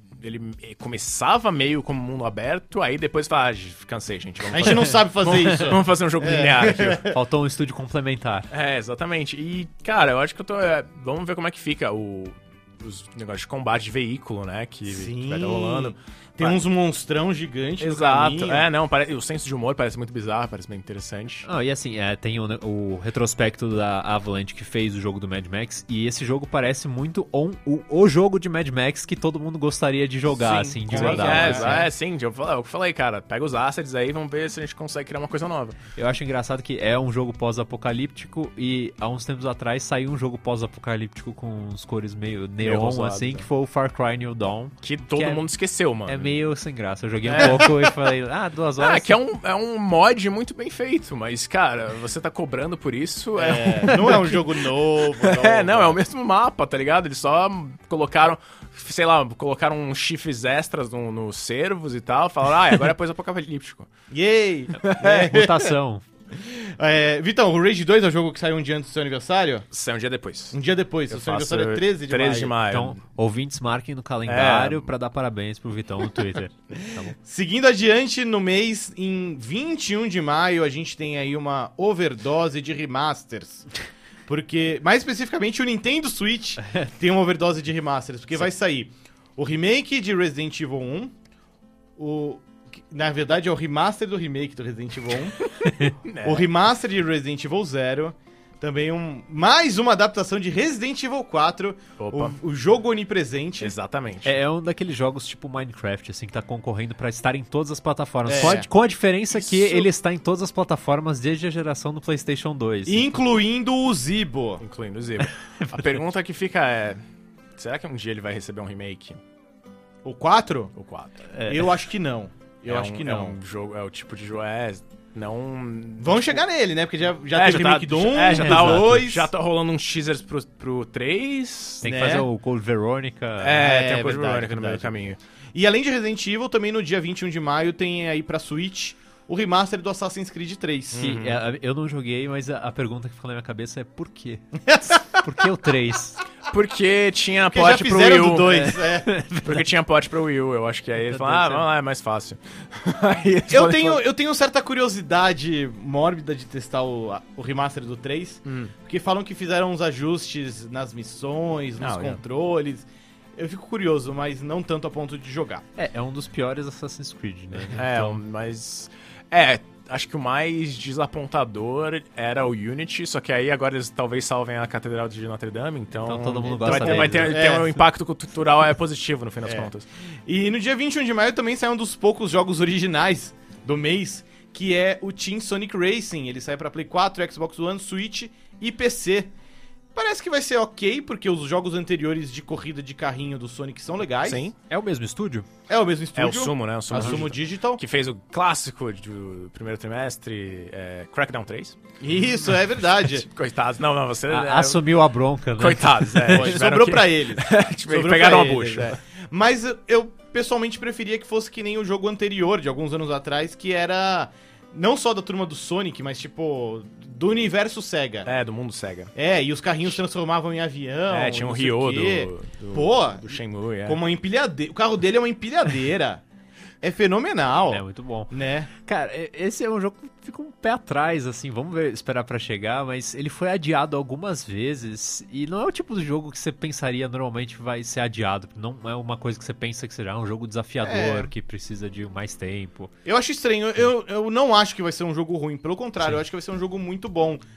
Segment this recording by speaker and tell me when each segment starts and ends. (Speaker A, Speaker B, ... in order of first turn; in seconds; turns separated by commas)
Speaker A: 0.2-7.0, Speaker B: 4.5-7.2, Speaker C: 7.1-8.5, Speaker A: 8.5-16.6, Speaker B: 14.8-18.7, Speaker A: 17.8-21.5, Speaker C: 21.4-31.9, Speaker A: 30.3-35.8, Speaker B: 30.9-31.9, Speaker C: 36.0-45.5, Speaker A: 42.6-43.5, Speaker A: 44.8-46.4, Speaker C: 46.0-49.2, Speaker A: 47.3-47.7, Speaker B: 47.4-47.6, Speaker A: 48.8-63.9, Speaker B: 53.4-56.0, Speaker B: 64.1-65.7, Speaker A: 64.8-65.4, Speaker C: 65.3-66.0, Speaker B: 66.3-69.7, Speaker A: 69.7-70.5, Speaker B: 70.5-72.6, Speaker A: 71.1-73.0, Speaker C: 72.7-76.5, Speaker A: 74.2-74.9, Speaker B: 77.0-83.7, Speaker B: 84.3-91.1, Speaker B: 92.0-95.4, Speaker A: 95.9-96.5, Speaker B: 96.2-103.7, Speaker A: 102.0-102.4, Speaker A: 103.6-104.3, Speaker C: 104.2-113.1, Speaker B: 108.2-108.7, Speaker B: 109.3-109.9, Speaker B: 112.8-114.6, Speaker A: 114.6-117.0, Speaker A: 117.6-119.2, Speaker B: 120.0-120.7, Speaker A: 120.8-121.1, Speaker C: 121.3-121.7, Speaker B: 121.4-123.4, Speaker A: 122.6-126.4, Speaker B: 126.0-129.3, Speaker A: 127.3-132.0, Speaker C: 128.3-128.9, Speaker C: 131.8-133.6, Speaker B: 131.8-132.3, Speaker A: 133.4-135.2, Speaker B: 133.5-134.9, Speaker B: 135.5-141.1, Speaker A: 140.9-141.4, Speaker C: 141.0-146.2, Speaker B: 144.7-145.2, Speaker A: 146.5-148.8, Speaker B: 147.4-149.1, Speaker C: 148.4-149.7, Speaker A: 149.4-154.1, Speaker C: 151.0-151.7, Speaker B: 153.5-165.6, Speaker A: 158.4-158.7, Speaker A: 161.8-162.2, Speaker C: 165.8-168.2, Speaker A: 167.7-179.8, Speaker C: 176.0-177.4, Speaker B: 176.6-177.8, Speaker B: 179.4-179.7, Speaker B: 180.2-189.3, Speaker B: 189.9-194.4, Speaker A: 194.2-194.5, Speaker C: 194.7-195.5, Speaker B: 195.7-197.8, Speaker A: 196.1-201.8, Speaker B: 202.0-203.2, Speaker A: 203.0-204.9, Speaker C: 204.3-206.6, Speaker A: 205.6-209.0, Speaker B: 206.2-218.3, Speaker A: 218.2-219.1, Speaker B: 219.1-226.2, Speaker A: 221.1-224.0, Speaker B: 226.8-228.7, Speaker C: 227.7-242.9, Speaker B: 240.8-241.3, Speaker B: 243.1-247.4